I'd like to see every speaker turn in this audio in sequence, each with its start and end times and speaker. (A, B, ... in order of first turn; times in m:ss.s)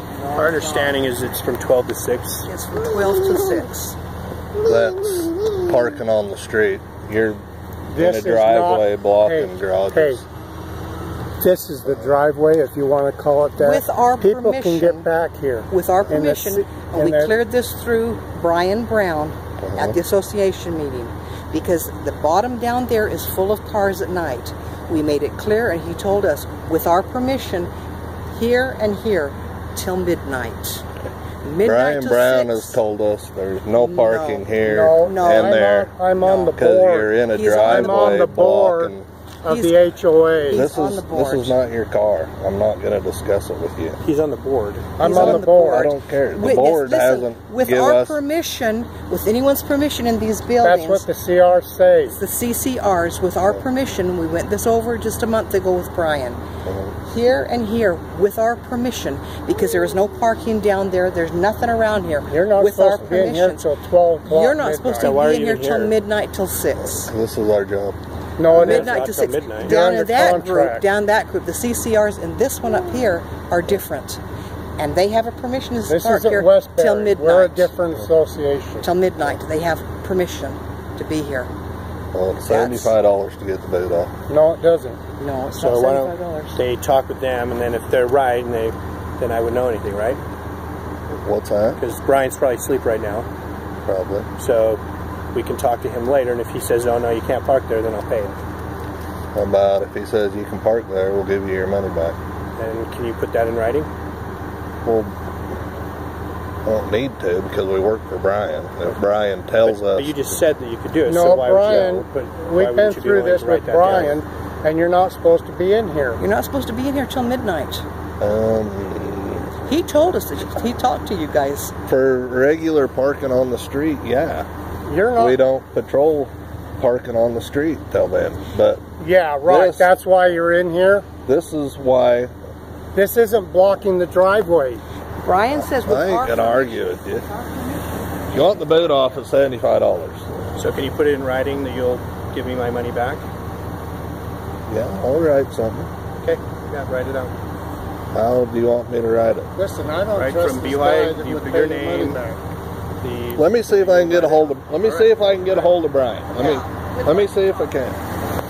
0:00.2-0:01.0 A
0:00.3-0:02.5 B
0:02.5-0:04.0 A
0:04.6-0:07.4 C
0:07.9-0:10.2 D
0:08.0-0:10.3 C
0:11.4-0:17.4 D
0:11.9-0:12.2 C
0:13.6-0:15.1 A
0:15.7-0:27.7 A
0:19.6-0:20.0 C
0:28.3-0:30.9 A
0:31.4-0:32.8 A
0:31.6-0:36.0 C
0:33.8-0:35.6 A
0:34.6-0:40.6 D
0:36.2-0:36.5 A
0:36.5-0:39.1 C
0:37.3-0:38.3 A
0:39.5-0:39.8 A
0:40.5-0:41.6 A
0:40.5-0:44.0 C
0:44.0-0:45.1 B
0:45.0-0:45.9 D
0:45.0-0:51.1 A
0:45.1-0:48.2 C
0:50.6-0:52.2 D
0:52.1-0:56.4 A
0:56.6-0:57.0 C
0:57.0-1:03.7 A
1:02.3-1:05.2 D
1:04.2-1:07.1 A
1:05.0-1:05.9 B
1:06.8-1:08.0 C
1:08.4-1:09.1 D
1:08.5-1:09.8 B
1:08.5-1:14.2 A
1:09.6-1:10.9 D
1:14.8-1:17.7 A
1:15.9-1:18.9 D
1:18.8-1:21.5 A
1:22.1-1:24.1 C
1:22.4-1:23.0 A
1:24.3-1:25.0 D
1:25.2-1:26.6 A
1:25.6-1:30.2 B
1:31.1-1:31.8 C
1:31.8-1:33.3 B
1:33.8-1:34.3 C
1:34.4-1:34.8 B
1:35.3-1:38.4 B
1:39.3-1:42.2 C
1:42.6-1:43.9 B
1:44.8-1:45.2 C
1:46.6-1:50.2 C
1:49.6-1:54.2 B
1:51.0-1:56.2 D
1:56.2-1:57.8 A
1:58.2-1:59.5 C
1:59.6-2:01.7 A
2:01.9-2:04.5 C
2:04.8-2:05.4 D
2:05.2-2:08.8 C
2:09.0-2:11.1 D
2:09.5-2:09.9 C
2:11.2-2:12.3 C
2:12.9-2:14.8 D
2:15.2-2:18.1 A
2:15.6-2:17.2 C
2:18.3-2:20.3 C
2:20.6-2:23.2 B
2:24.7-2:25.9 C
2:26.2-2:27.4 B
2:28.1-2:29.5 C
2:29.6-2:32.4 D
2:30.1-2:32.2 B
2:33.0-2:35.7 B
2:33.4-2:38.0 C
2:36.4-2:36.8 A